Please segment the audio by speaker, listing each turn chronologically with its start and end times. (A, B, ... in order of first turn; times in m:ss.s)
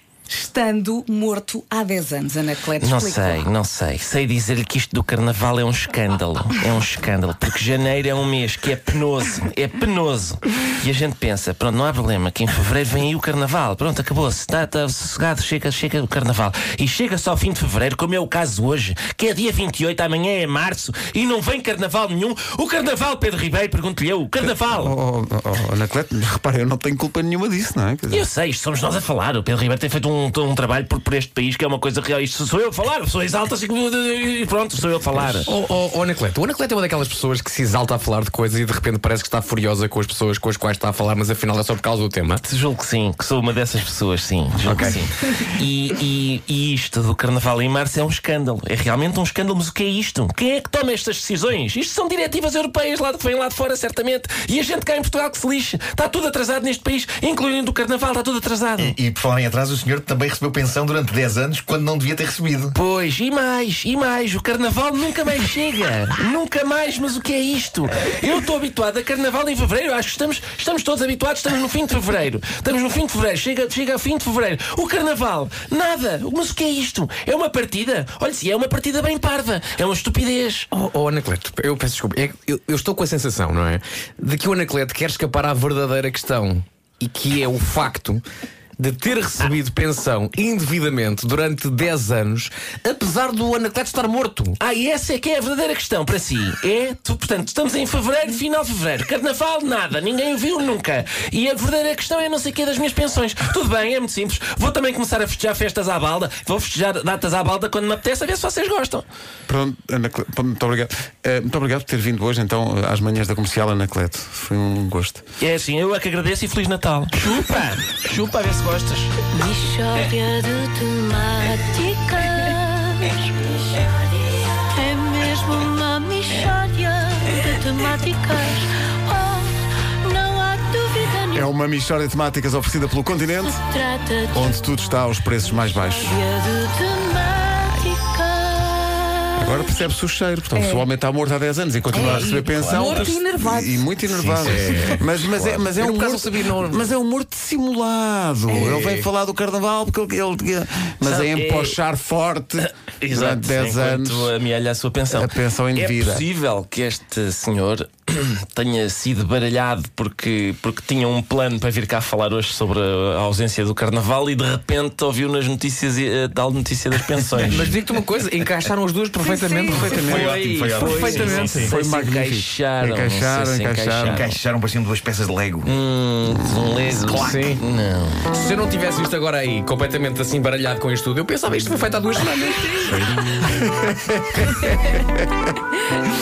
0:00.3-0:03.5 A
0:02.8-0:24.9 B
0:24.4-0:28.3 C
0:28.1-0:35.5 B
0:35.1-0:42.4 D
0:42.4-0:59.0 B
0:44.6-0:45.0 C
0:58.8-1:02.8 E
1:02.7-1:20.7 B
1:20.7-1:28.2 D
1:28.8-1:34.6 D
1:34.6-1:49.0 B
1:49.4-1:55.2 C
1:55.4-1:59.1 B
1:59.3-2:11.5 F
2:11.3-2:13.6 C
2:13.4-2:19.3 F
2:14.3-2:16.2 C
2:19.4-2:34.3 C
2:20.5-2:20.8 A
2:21.9-2:23.1 B
2:21.9-2:24.0 A
2:24.1-2:25.0 D
2:25.6-2:26.8 D
2:28.5-2:29.0 D
2:31.0-2:31.8 B
2:32.6-2:47.8 B
2:35.1-2:36.2 C
2:47.4-2:50.1 D
2:49.2-2:49.9 A
2:49.7-2:51.6 E
2:49.7-2:54.3 C
2:50.0-2:54.4 B
2:50.8-2:51.7 D
2:54.0-2:55.7 E
2:55.6-2:58.2 B
2:57.1-2:57.5 E
2:57.2-2:57.6 D
2:58.2-3:03.1 D
3:02.8-3:05.3 C